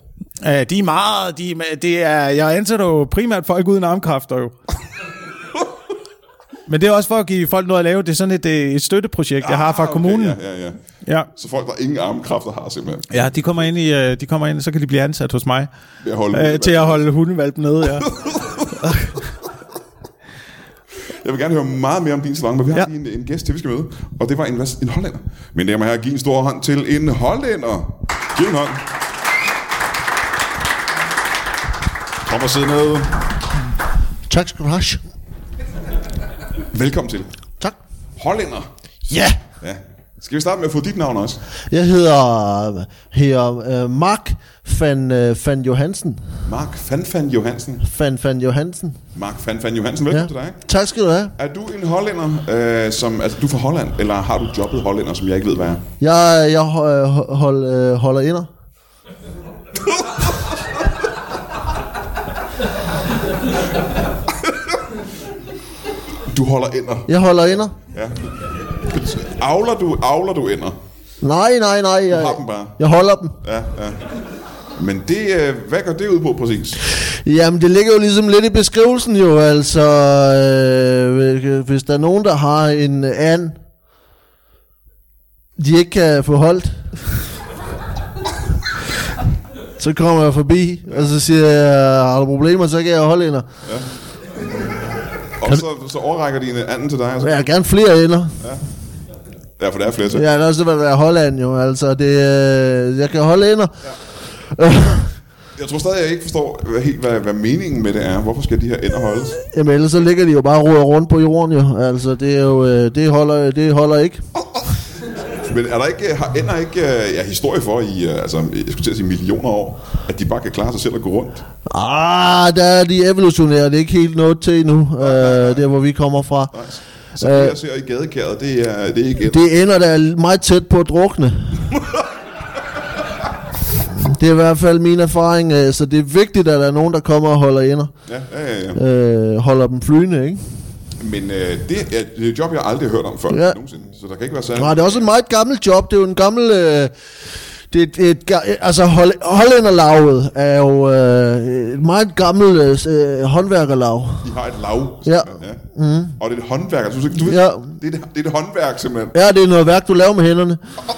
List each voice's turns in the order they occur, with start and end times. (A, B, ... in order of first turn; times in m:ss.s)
0:00.4-0:04.5 A
0:06.7-0:10.4 A
0:09.4-0:10.8 B
0:11.0-0:11.3 A
0:11.4-0:13.3 B
0:13.1-0:15.7 A
0:16.0-0:17.0 B
0:16.3-0:18.1 A
0:18.1-0:18.7 B
0:18.8-0:19.2 A
0:21.1-0:28.9 B
0:32.2-0:33.4 B
0:34.3-0:35.0 C
0:36.7-0:37.3 B
0:38.2-0:38.7 B
0:39.1-0:39.4 C
0:39.6-0:41.4 B
0:41.7-0:46.3 C
0:46.4-0:47.8 B
0:47.8-0:49.0 C
0:49.2-0:50.6 B
0:50.1-0:51.3 C
0:51.4-0:55.8 B
0:56.0-0:58.5 C
1:06.3-1:07.1 B
1:07.1-1:07.8 C
1:07.9-1:08.2 B
1:08.8-1:10.8 B
1:11.2-1:13.4 C
1:12.1-1:12.8 B
1:13.4-1:14.0 B
1:14.8-1:16.8 B
1:16.9-1:23.6 C
1:25.6-1:27.0 C
1:29.8-1:33.5 C
1:35.4-1:37.4 B
1:37.2-1:38.4 C
1:39.6-1:40.3 B
1:40.1-1:43.7 C
1:44.4-1:45.1 C
1:45.6-1:49.4 B
1:49.5-1:54.2 C
1:55.4-2:01.4 B
2:01.7-2:06.5 C
2:05.0-2:05.6 B
2:06.5-2:09.4 B
2:07.2-2:07.6 C
2:09.3-2:11.8 C
2:13.8-2:17.9 C
2:18.1-2:18.8 B
2:18.7-2:20.6 C
2:21.0-2:25.0 B
2:23.3-2:23.6 C
2:24.6-2:34.3 C
2:34.2-2:35.6 B
2:35.0-2:36.2 C
2:36.2-2:39.2 B
2:37.2-2:37.7 C
2:39.1-2:40.6 C